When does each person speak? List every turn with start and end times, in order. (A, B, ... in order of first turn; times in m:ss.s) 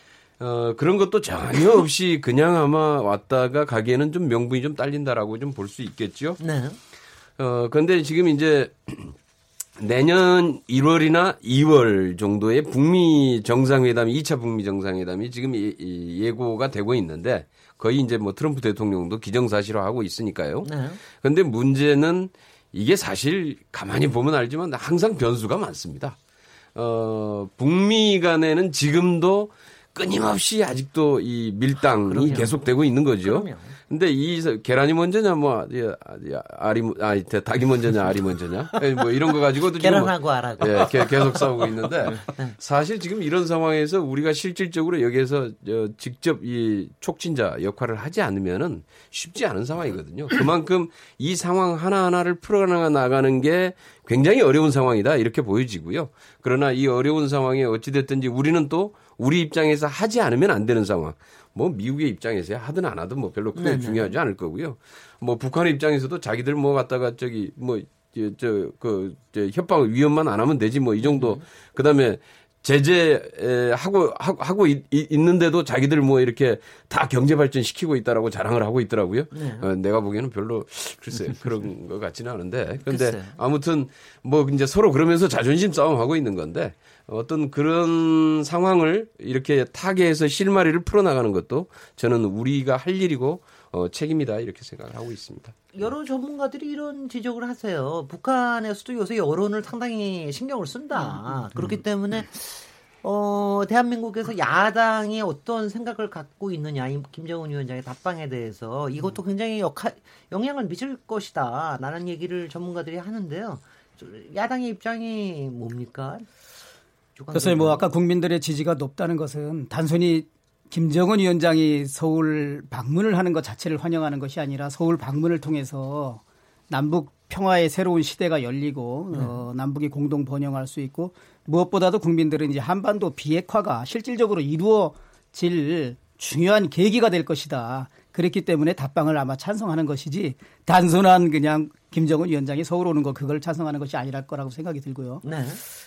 0:00.4-0:06.4 A
0:06.4-0:06.8 B
0:07.4-0:09.1 A
0:09.8-0:26.2 A
0:20.6-0:21.0 B
0:26.7-1:35.6 A
0:32.1-0:32.6 B
0:33.2-0:33.8 B
0:39.8-0:41.5 B
0:42.1-0:42.6 B
1:03.5-1:04.1 B
1:11.0-1:11.4 B
1:19.3-1:19.7 B
1:22.9-1:23.4 B
1:35.7-1:56.3 B
1:57.2-1:57.9 B
1:57.3-2:25.2 C
2:09.1-2:09.4 B
2:25.2-2:25.6 B